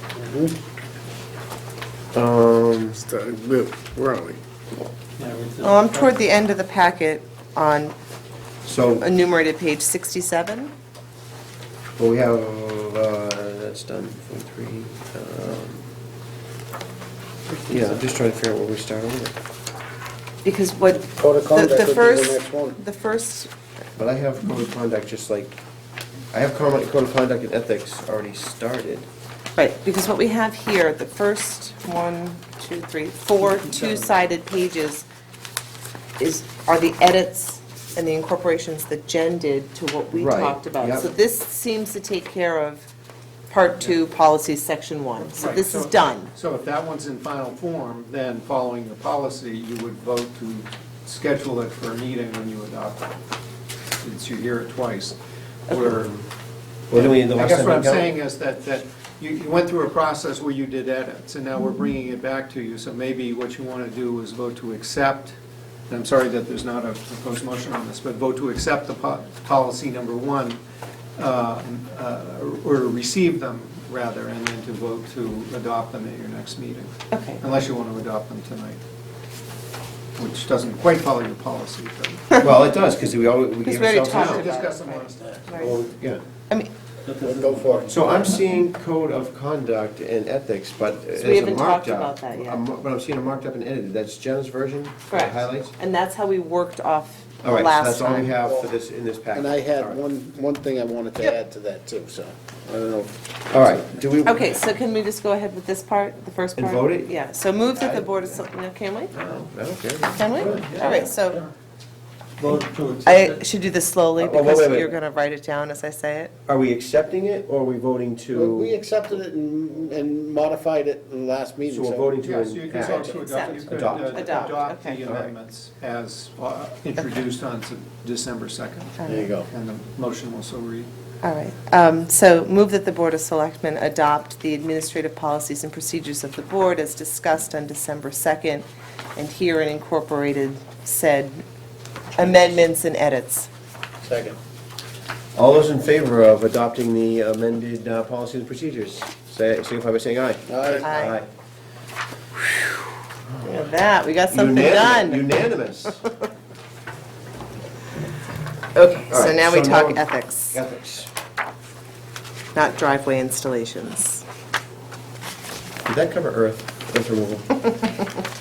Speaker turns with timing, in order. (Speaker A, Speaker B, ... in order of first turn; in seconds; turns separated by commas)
Speaker A: 0.2-0.5, Speaker B: 2.1-3.0, Speaker A: 3.0-4.4, Speaker C: 5.2-6.1, Speaker D: 5.6-7.9, Speaker B: 8.7-9.1, Speaker D: 9.0-10.7, Speaker B: 12.0-15.9, Speaker B: 17.7-19.4, Speaker D: 20.4-23.5, Speaker A: 21.1-22.8, Speaker B: 24.0-25.6, Speaker B: 26.3-29.1, Speaker D: 29.6-35.1, Speaker C: 33.5-34.1, Speaker D: 36.2-42.8, Speaker B: 40.1-41.1, Speaker D: 43.5-46.3, Speaker C: 45.2-53.1, Speaker C: 54.0-56.2, Speaker B: 56.9-58.1, Speaker C: 56.9-65.4, Speaker C: 65.9-70.6, Speaker C: 71.2-78.8, Speaker D: 77.1-77.4, Speaker C: 80.2-82.3, Speaker B: 82.4-84.5, Speaker D: 83.7-85.8, Speaker C: 84.1-85.7, Speaker A: 84.2-85.7, Speaker B: 85.5-86.2, Speaker A: 87.2-88.1, Speaker C: 87.2-87.8, Speaker B: 87.9-95.7, Speaker D: 91.2-92.7, Speaker D: 95.1-98.3, Speaker B: 97.4-100.0, Speaker A: 98.4-98.7, Speaker A: 99.3-102.3, Speaker B: 102.7-104.5, Speaker D: 104.2-109.1, Speaker B: 106.6-107.1, Speaker B: 107.7-108.5, Speaker B: 109.1-111.0, Speaker D: 110.1-111.4, Speaker C: 110.4-111.0, Speaker C: 112.4-113.5, Speaker D: 113.0-116.3, Speaker B: 114.2-115.0, Speaker B: 116.5-118.8, Speaker A: 118.3-122.2, Speaker B: 121.7-124.5, Speaker C: 122.2-130.9, Speaker D: 122.8-125.0, Speaker B: 125.0-125.3, Speaker D: 129.0-129.3, Speaker A: 129.1-129.5, Speaker D: 131.2-141.4, Speaker D: 142.1-143.5, Speaker A: 144.0-144.4, Speaker B: 145.4-151.3, Speaker A: 150.5-150.8, Speaker D: 150.8-151.2, Speaker B: 153.3-153.7, Speaker D: 153.4-155.3, Speaker B: 154.3-156.0, Speaker D: 158.7-160.6, Speaker B: 159.1-161.1, Speaker D: 162.5-164.2, Speaker B: 165.8-167.7